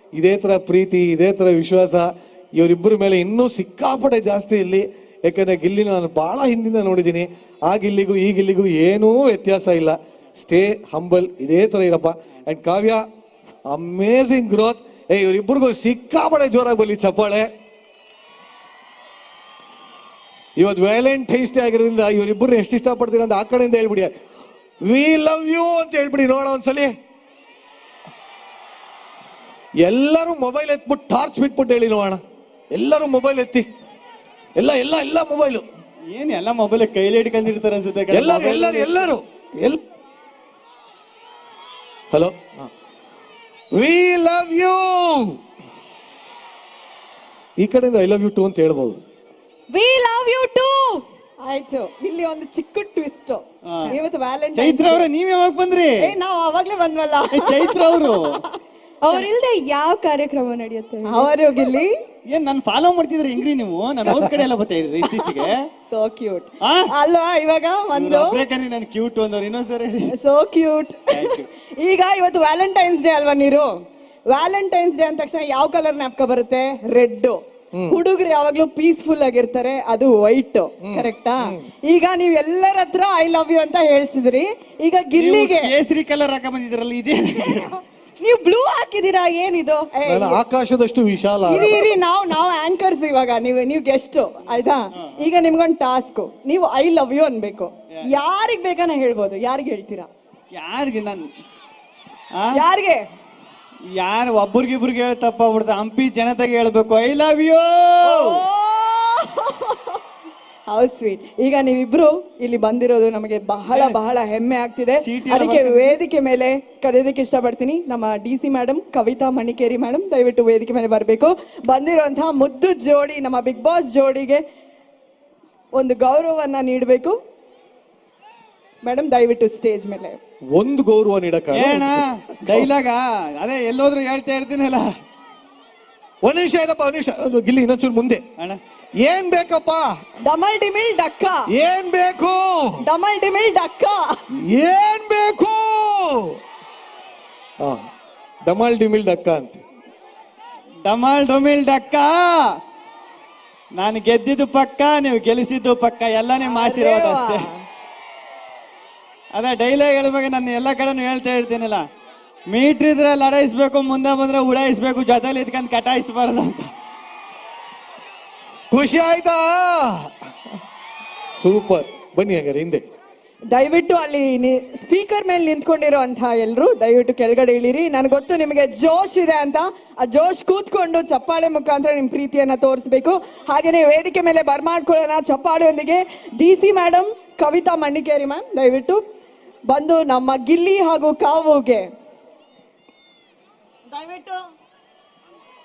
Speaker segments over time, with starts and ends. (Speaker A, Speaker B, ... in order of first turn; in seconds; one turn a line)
Speaker A: 0.1-13.0
Speaker A: 13.7-17.5
Speaker A: 20.6-24.1
Speaker A: 24.8-26.9
Speaker A: 29.8-32.2
Speaker A: 32.7-33.7
Speaker A: 34.6-35.6
Speaker B: 36.1-39.1
Speaker A: 38.1-39.8
Speaker A: 42.1-42.7
Speaker A: 43.7-45.4
Speaker A: 47.6-49.0
Speaker C: 49.7-51.0
Speaker D: 51.4-55.0
Speaker B: 53.7-54.0
Speaker B: 54.5-56.1
Speaker D: 56.0-59.3
Speaker B: 57.3-58.4
Speaker C: 59.0-61.3
Speaker D: 61.0-61.9
Speaker B: 62.3-65.7
Speaker D: 65.9-68.4
Speaker B: 66.6-66.9
Speaker B: 67.9-70.1
Speaker D: 70.1-73.7
Speaker B: 71.1-71.5
Speaker D: 74.3-85.7
Speaker A: 80.8-81.6
Speaker B: 85.2-87.8
Speaker C: 88.2-89.9
Speaker D: 89.9-90.4
Speaker A: 90.1-91.9
Speaker D: 91.4-100.1
Speaker B: 100.5-101.2
Speaker D: 102.5-103.0
Speaker B: 104.0-108.4
Speaker D: 108.0-110.0
Speaker D: 110.7-124.4
Speaker B: 113.7-114.0
Speaker B: 115.0-116.0
Speaker D: 125.7-127.2
Speaker D: 128.8-130.2
Speaker A: 130.6-132.7
Speaker B: 131.5-134.9
Speaker A: 136.2-138.2
Speaker A: 139.0-139.9
Speaker D: 140.3-141.4
Speaker A: 141.5-142.8
Speaker D: 142.8-144.1
Speaker A: 144.4-146.4
Speaker A: 148.4-149.6
Speaker B: 150.8-152.4
Speaker B: 153.8-157.5
Speaker D: 156.4-157.6
Speaker B: 159.3-161.8
Speaker B: 162.5-166.7
Speaker A: 168.7-170.1
Speaker A: 171.4-172.8
Speaker D: 173.5-189.0
Speaker D: 189.7-191.9
Speaker C: 193.9-194.4